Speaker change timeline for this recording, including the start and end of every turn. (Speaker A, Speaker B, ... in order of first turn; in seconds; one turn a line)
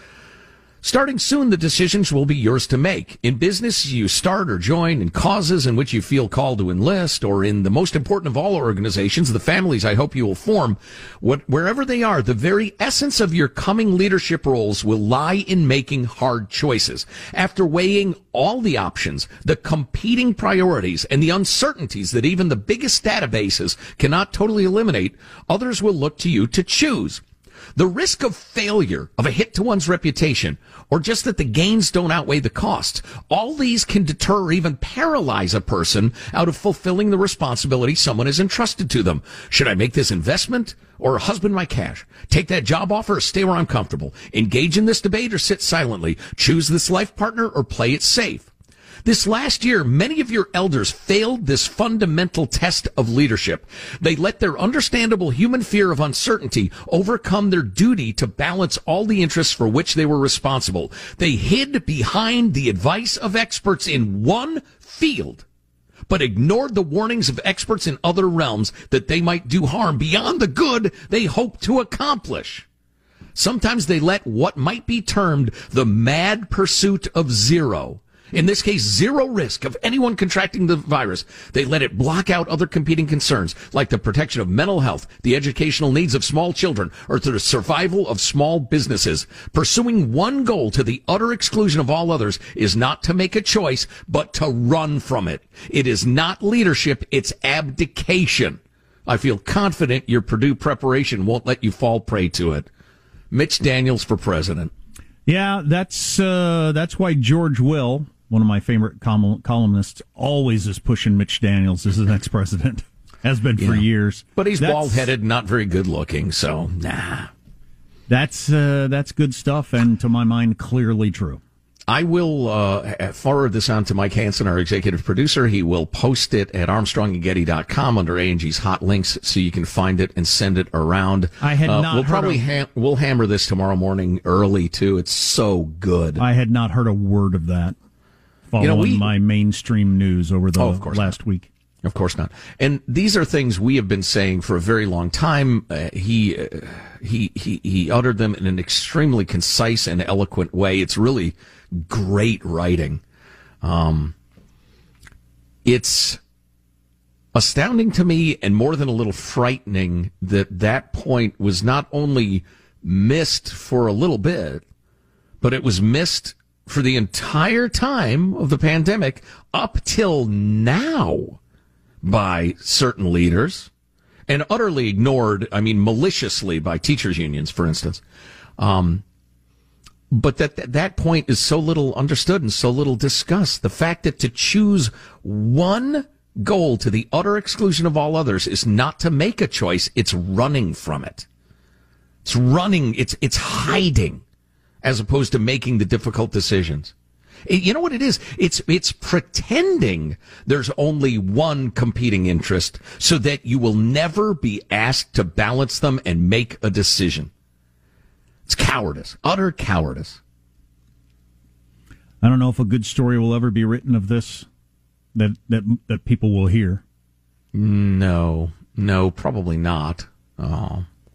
Speaker A: 0.8-27.2
Speaker A: 27.8-48.5
Speaker A: 49.0-65.4
Speaker A: 66.1-72.7
Speaker A: 73.3-102.7
Speaker A: 103.3-104.7
Speaker B: 105.2-115.1
Speaker A: 113.6-117.3
Speaker B: 118.1-121.4
Speaker A: 121.9-136.2
Speaker B: 131.4-132.4
Speaker B: 136.2-137.8
Speaker B: 138.5-141.5
Speaker A: 138.6-139.1
Speaker A: 140.6-141.1
Speaker A: 141.8-153.0
Speaker A: 153.6-154.1
Speaker A: 155.6-156.2
Speaker A: 157.3-164.6
Speaker A: 165.4-171.4
Speaker A: 172.0-173.7
Speaker A: 174.3-178.0
Speaker A: 178.6-179.0
Speaker A: 180.1-191.2
Speaker A: 192.2-194.2
Speaker A: 194.8-196.9
Speaker A: 197.5-207.3
Speaker A: 208.5-210.2
Speaker B: 212.2-214.5
Speaker B: 215.1-216.8
Speaker A: 217.5-220.8